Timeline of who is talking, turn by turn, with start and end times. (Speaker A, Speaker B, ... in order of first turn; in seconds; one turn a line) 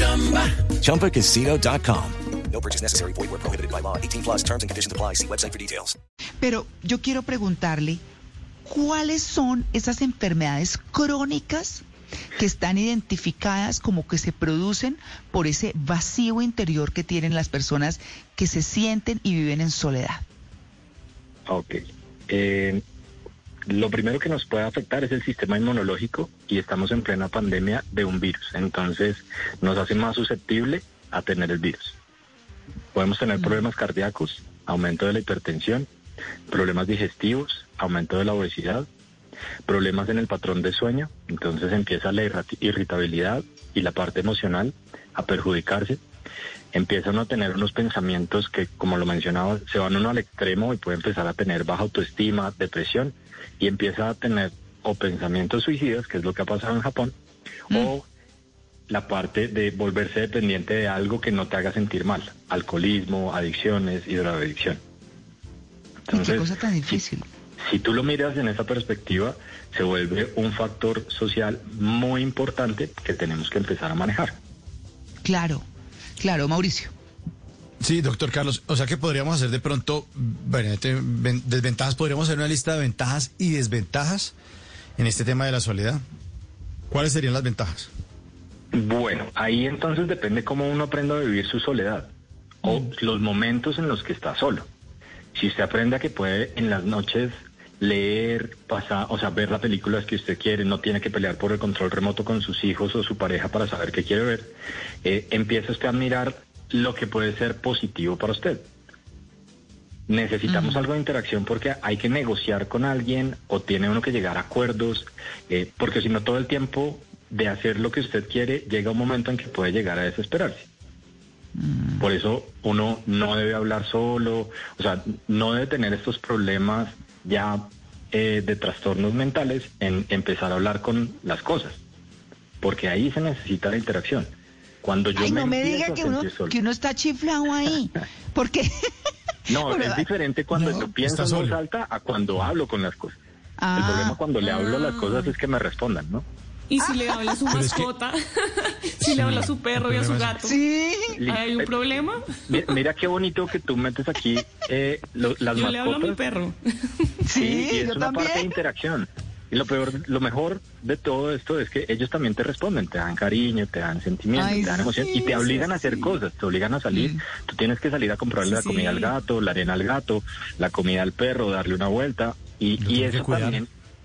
Speaker A: 0.6-5.9
Speaker B: 6.4-8.0
Speaker B: 8.6-11.8
Speaker B: 12.4-20.2
Speaker C: 21.5-22.8
Speaker C: 23.7-31.9
Speaker C: 32.9-35.9
Speaker C: 36.5-38.9
Speaker C: 39.7-46.0
Speaker C: 46.7-57.1
Speaker C: 57.7-58.0
Speaker C: 58.9-64.8
Speaker B: 66.1-67.2
Speaker C: 66.1-67.0
Speaker C: 67.6-74.4
Speaker B: 75.2-75.6
Speaker B: 76.2-76.9
Speaker D: 77.8-84.3
Speaker D: 85.0-86.0
Speaker D: 86.9-87.9
Speaker C: 88.7-92.1
Speaker C: 92.6-94.7
Speaker C: 95.3-108.7
Speaker C: 110.1-120.7
Speaker B: 110.5-110.9
Speaker B: 121.6-122.0
Speaker C: 122.0-131.8
Speaker C: 132.6-136.6
Speaker B: 135.2-138.7
Speaker C: 139.5-143.2
Speaker B: 139.5-140.9
Speaker D: 141.0-141.6
Speaker B: 143.6-144.2
Speaker C: 143.8-146.2
Speaker E: 144.4-145.2
Speaker E: 146.7-150.6
Speaker B: 146.8-147.4
Speaker D: 147.5-147.9
Speaker D: 149.0-150.4
Speaker B: 150.4-151.2
Speaker C: 151.2-151.9
Speaker E: 151.3-152.8
Speaker C: 152.5-156.2
Speaker E: 155.5-157.2
Speaker B: 157.2-158.5
Speaker C: 157.3-173.7
Speaker B: 164.3-166.1
Speaker B: 166.9-167.2
Speaker E: 168.4-169.1
Speaker D: 172.8-173.6